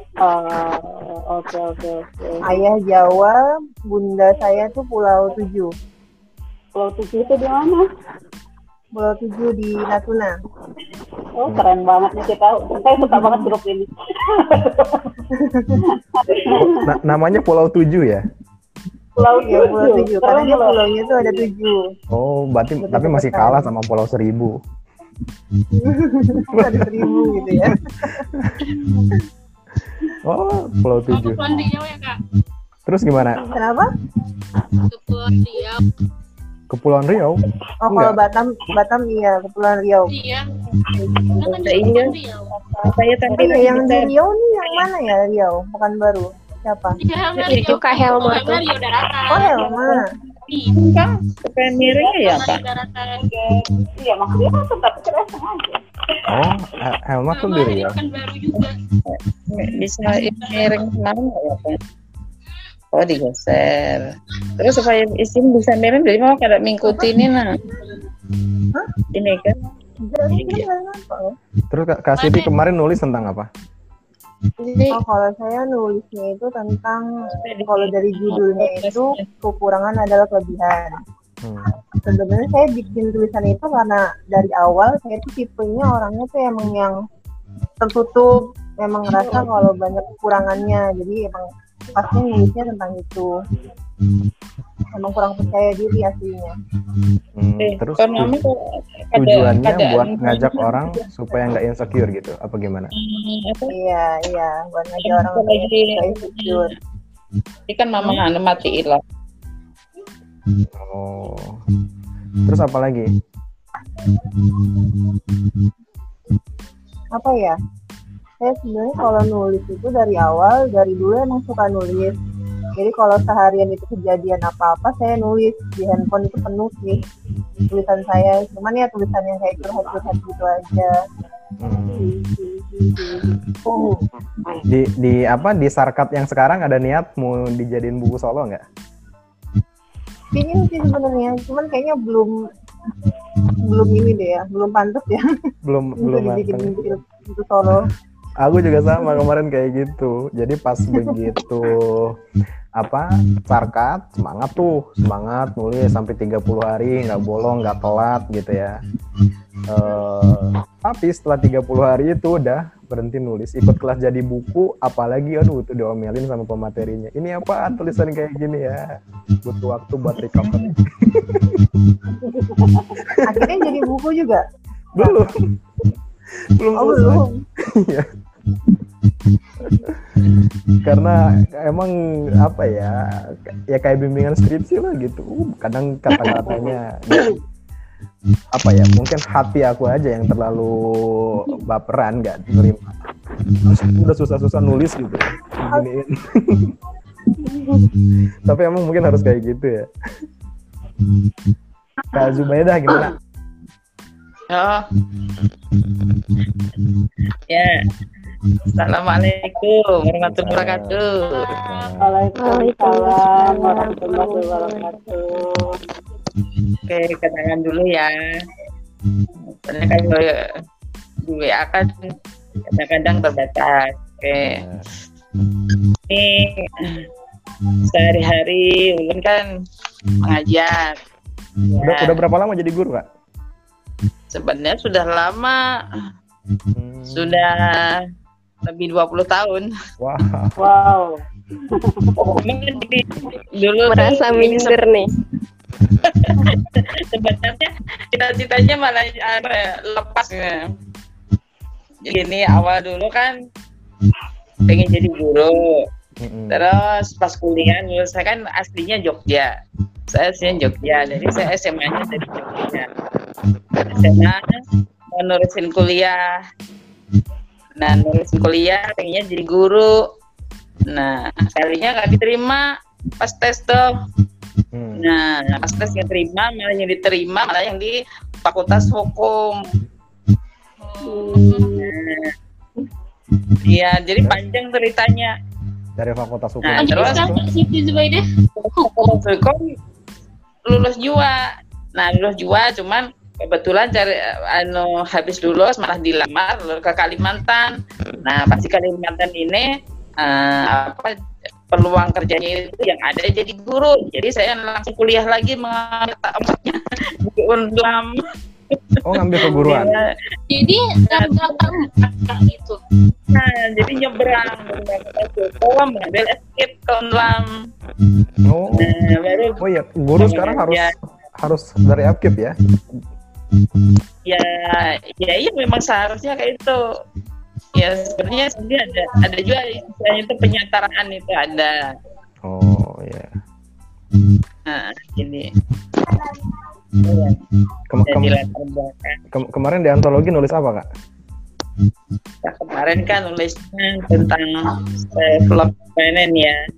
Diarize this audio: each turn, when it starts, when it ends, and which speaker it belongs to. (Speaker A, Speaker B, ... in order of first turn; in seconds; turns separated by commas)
Speaker A: 0.2-2.4, Speaker B: 2.4-5.7, Speaker A: 6.8-7.8, Speaker B: 9.0-10.3, Speaker A: 11.4-15.1, Speaker B: 13.1-13.4, Speaker B: 15.3-15.8, Speaker A: 16.2-16.8, Speaker C: 16.5-18.2, Speaker A: 19.2-20.8, Speaker B: 19.3-21.8, Speaker C: 22.1-24.6, Speaker B: 22.8-23.7, Speaker B: 25.8-28.2, Speaker C: 26.5-27.0, Speaker C: 28.1-28.6, Speaker C: 30.2-31.5, Speaker D: 31.1-32.2, Speaker C: 32.9-33.5, Speaker B: 33.4-33.9, Speaker D: 34.9-35.8, Speaker C: 36.7-38.2, Speaker B: 37.8-40.2, Speaker D: 40.1-40.5, Speaker C: 41.0-41.4, Speaker D: 41.4-42.5, Speaker E: 41.5-42.1, Speaker E: 42.8-44.1, Speaker B: 42.9-47.0, Speaker D: 47.0-50.7, Speaker F: 47.4-48.7, Speaker B: 49.3-50.1, Speaker E: 50.8-52.6, Speaker A: 51.8-52.1, Speaker D: 52.1-53.2, Speaker A: 53.3-55.8, Speaker C: 56.3-58.0, Speaker D: 57.3-58.8, Speaker E: 59.1-61.8, Speaker E: 62.9-67.5, Speaker E: 69.1-69.5, Speaker B: 70.0-71.3, Speaker E: 70.3-70.7, Speaker C: 71.7-73.5, Speaker D: 72.2-72.5, Speaker B: 74.9-77.0, Speaker E: 77.4-79.3, Speaker B: 77.7-81.0, Speaker C: 81.4-81.8, Speaker B: 82.0-87.0, Speaker B: 87.8-93.3, Speaker B: 94.9-96.5, Speaker C: 97.4-98.4, Speaker E: 97.6-100.8, Speaker C: 99.2-102.9, Speaker E: 102.9-103.8, Speaker B: 103.7-106.7, Speaker E: 105.0-106.7, Speaker E: 107.7-109.0, Speaker C: 110.7-111.6, Speaker C: 112.5-113.1, Speaker B: 117.2-117.6, Speaker B: 118.4-122.2, Speaker B: 122.8-127.0, Speaker B: 127.7-130.9, Speaker C: 131.6-132.1, Speaker A: 131.9-133.3, Speaker B: 133.7-133.9, Speaker C: 134.7-138.6, Speaker B: 140.3-142.3, Speaker B: 143.6-145.3, Speaker C: 145.7-146.8, Speaker B: 146.0-147.9, Speaker C: 148.4-152.2, Speaker C: 152.8-158.8, Speaker C: 159.7-171.7, Speaker A: 172.2-173.0, Speaker C: 173.1-173.6, Speaker B: 173.2-174.4, Speaker C: 175.0-175.4, Speaker B: 175.0-175.3, Speaker C: 176.5-178.1, Speaker B: 176.8-177.3, Speaker C: 179.6-180.3, Speaker C: 180.8-187.3, Speaker E: 186.2-186.7, Speaker C: 188.5-192.9, Speaker C: 193.6-196.7, Speaker C: 198.5-199.9, Speaker C: 202.1-203.1, Speaker E: 204.5-204.8, Speaker E: 208.8-211.5, Speaker C: 210.2-212.1, Speaker D: 211.2-211.9, Speaker A: 212.0-215.8, Speaker F: 212.4-215.0, Speaker E: 216.9-218.1, Speaker E: 219.7-220.3, Speaker E: 221.3-222.1, Speaker E: 222.7-224.6, Speaker C: 224.4-224.9, Speaker E: 226.1-227.0, Speaker E: 227.9-229.5, Speaker E: 230.2-231.0, Speaker E: 231.7-232.2, Speaker C: 231.8-233.1, Speaker E: 234.3-235.6, Speaker C: 236.7-237.4, Speaker E: 237.1-238.0, Speaker E: 238.7-239.7, Speaker C: 240.0-240.6, Speaker A: 240.6-242.3, Speaker E: 242.2-244.8, Speaker F: 243.9-245.1, Speaker E: 246.0-250.7, Speaker E: 252.1-253.3, Speaker E: 254.7-255.7, Speaker C: 256.2-256.6, Speaker E: 256.5-259.5, Speaker E: 260.1-262.9, Speaker C: 260.4-262.1, Speaker E: 263.9-264.5, Speaker E: 265.2-266.2, Speaker E: 267.8-269.9, Speaker E: 270.9-272.6, Speaker E: 273.2-273.8, Speaker C: 274.7-275.0, Speaker E: 275.0-279.6, Speaker A: 281.0-281.9, Speaker E: 281.1-282.3, Speaker E: 283.6-285.3, Speaker C: 286.0-287.4, Speaker E: 286.6-287.4, Speaker D: 286.8-288.2, Speaker E: 288.6-289.7, Speaker D: 288.8-289.2, Speaker E: 290.7-291.4, Speaker E: 292.0-297.7, Speaker E: 298.2-301.1, Speaker E: 301.7-308.2, Speaker E: 308.7-310.1, Speaker C: 309.0-309.9, Speaker D: 310.5-312.8, Speaker E: 311.1-311.7, Speaker E: 313.3-317.5, Speaker C: 318.4-319.0, Speaker E: 318.8-319.6, Speaker C: 319.6-322.6, Speaker E: 320.2-320.9, Speaker E: 324.3-326.8, Speaker E: 327.8-331.7, Speaker C: 332.5-333.3, Speaker E: 334.7-335.5, Speaker E: 337.0-337.4, Speaker C: 337.9-338.4, Speaker E: 338.1-339.2, Speaker C: 339.3-340.9, Speaker E: 342.4-346.6